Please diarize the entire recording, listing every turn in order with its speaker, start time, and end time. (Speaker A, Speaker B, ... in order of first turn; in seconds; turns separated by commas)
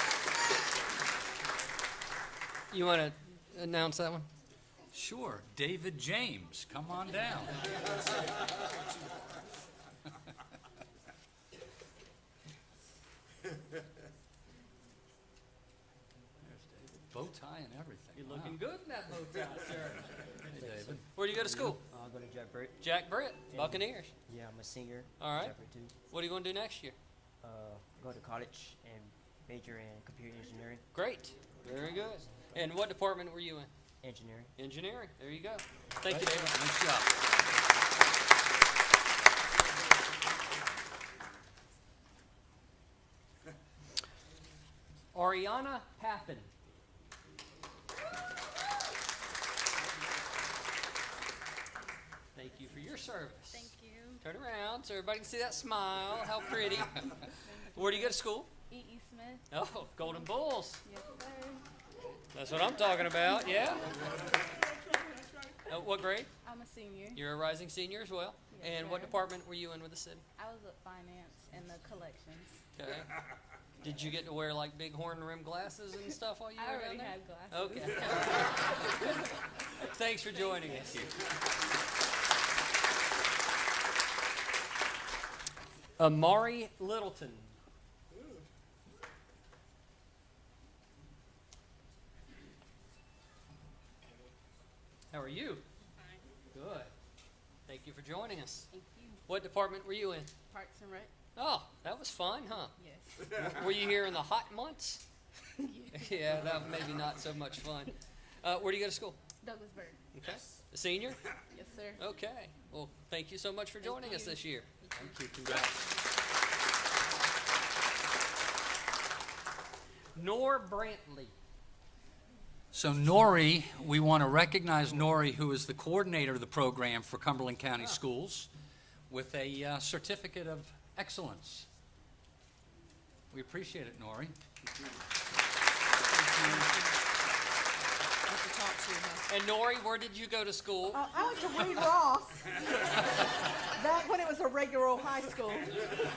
Speaker A: 2.7-4.3, Speaker B: 4.9-7.7, Speaker B: 16.4-18.6, Speaker A: 18.1-21.8, Speaker B: 20.5-21.0, Speaker C: 21.3-22.9, Speaker A: 22.8-24.1, Speaker C: 23.5-25.9, Speaker A: 25.2-25.6, Speaker A: 26.1-27.0, Speaker C: 27.4-30.8, Speaker A: 30.9-33.7, Speaker C: 34.0-34.5, Speaker A: 34.6-37.0, Speaker B: 36.1-37.0, Speaker A: 45.1-46.5, Speaker A: 52.4-57.1, Speaker D: 53.5-54.2, Speaker A: 57.6-58.5, Speaker D: 58.7-59.5, Speaker A: 59.5-60.8, Speaker D: 60.8-61.6, Speaker A: 62.3-64.0, Speaker A: 65.7-66.3, Speaker D: 66.4-67.2, Speaker A: 67.2-70.2, Speaker D: 68.5-69.1, Speaker D: 70.4-72.5, Speaker A: 72.8-73.1, Speaker A: 73.8-81.1, Speaker D: 76.6-78.9, Speaker B: 80.7-81.1, Speaker A: 86.0-87.6, Speaker A: 95.1-95.6, Speaker A: 96.5-96.9, Speaker A: 97.7-98.7, Speaker D: 98.7-99.2, Speaker A: 99.3-100.3, Speaker D: 100.5-101.1, Speaker A: 101.3-102.7, Speaker D: 102.8-103.1, Speaker A: 103.2-105.0, Speaker D: 105.6-106.2, Speaker A: 105.9-109.2, Speaker D: 109.4-110.0, Speaker A: 110.2-111.2, Speaker D: 111.5-112.0, Speaker A: 112.0-114.7, Speaker D: 113.8-114.4, Speaker B: 115.0-115.8, Speaker A: 120.2-121.3, Speaker B: 122.7-128.5, Speaker B: 129.1-131.7, Speaker B: 133.3-134.3, Speaker A: 136.1-136.8, Speaker E: 136.4-136.9, Speaker E: 138.3-139.3, Speaker A: 139.3-141.0, Speaker E: 140.9-145.9